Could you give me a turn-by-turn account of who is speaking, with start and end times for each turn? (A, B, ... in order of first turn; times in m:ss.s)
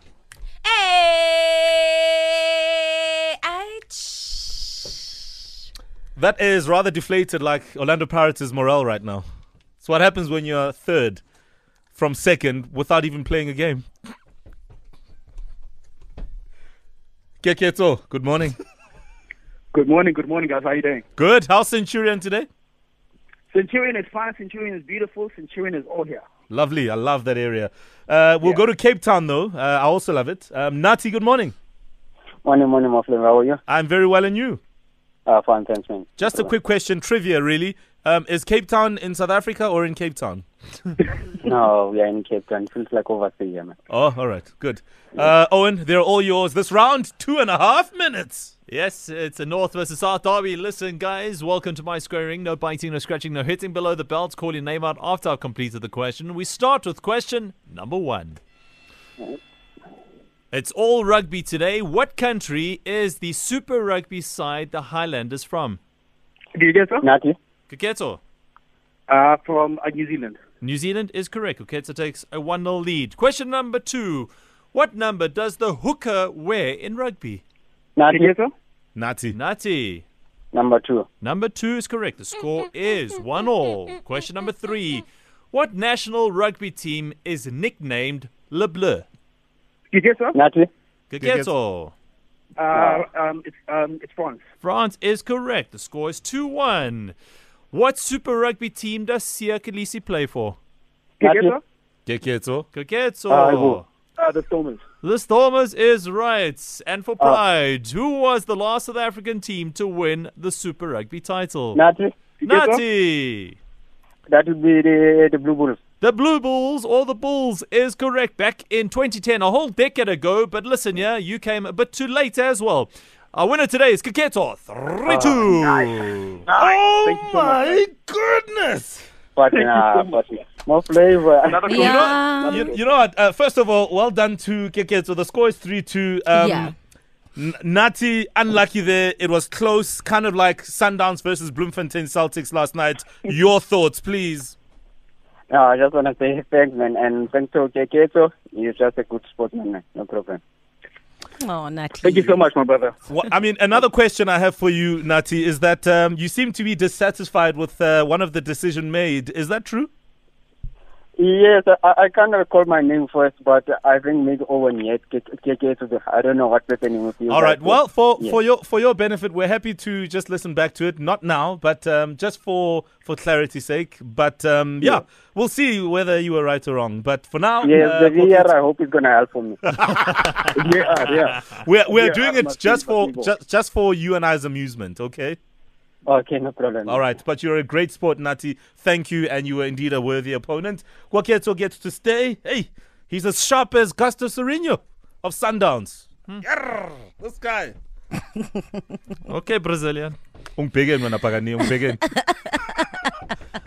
0:00.6-0:05.2 A
0:06.2-0:09.2 B
0:09.8-0:11.2 B
0:11.9-0:13.8 B
0:17.4-0:18.6 B
0:19.7-0:21.0 C
0:21.2-0:22.5 B
0:23.5-0:26.2 C
0:26.5-0:31.5 B
0:32.4-0:33.6 D
0:33.7-0:34.6 B
0:35.2-0:36.5 D
0:36.2-0:40.4 B
0:41.4-0:43.7 D
0:43.9-0:48.5 B
0:48.7-0:58.4 E
1:00.5-1:05.8 E
1:06.5-1:07.0 C
1:07.0-1:07.4 D
1:07.7-1:08.2 E
1:09.1-1:10.4 C
1:10.6-1:17.4 E
1:18.0-1:18.3 D
1:18.1-1:18.5 C
1:19.0-1:19.3 B
1:19.3-1:20.0 E
1:20.5-1:21.1 D
1:21.2-1:29.0 E
1:29.9-1:30.3 C
1:30.3-1:30.7 D
1:31.1-1:31.9 E
1:31.2-1:31.5 B
1:32.6-1:34.4 C
1:32.7-1:33.0 D
1:34.6-1:37.1 E
1:37.7-1:40.6 E
1:41.2-1:41.6 C
1:41.2-1:41.6 D
1:42.0-1:42.6 B
1:42.7-1:43.8 E
1:43.3-1:43.8 D
1:44.2-1:44.8 C
1:45.0-1:51.8 E
1:51.7-1:52.1 D
1:52.4-1:52.8 C
1:52.4-1:53.6 E
1:54.3-1:55.8 D
1:56.0-2:06.4 E
2:05.1-2:05.7 D
2:06.4-2:07.8 C
2:06.5-2:09.1 B
2:09.4-2:11.8 D
2:09.6-2:10.0 C
2:11.5-2:12.7 C
2:11.7-2:12.7 A
2:11.8-2:16.7 B
2:16.3-2:16.7 A
2:17.4-2:24.6 B
2:25.5-2:30.4 D
2:31.4-2:32.4 A
2:32.0-2:32.9 C
2:33.1-2:39.9 B
2:41.2-2:48.4 D
2:47.3-2:58.5 B
2:57.6-2:59.6 D
2:59.7-3:00.5 B
3:00.5-3:03.3 C
3:01.4-3:05.4 B
3:06.0-3:07.0 D
3:06.9-3:17.7 B
3:19.2-3:20.2 E
3:20.6-3:22.2 B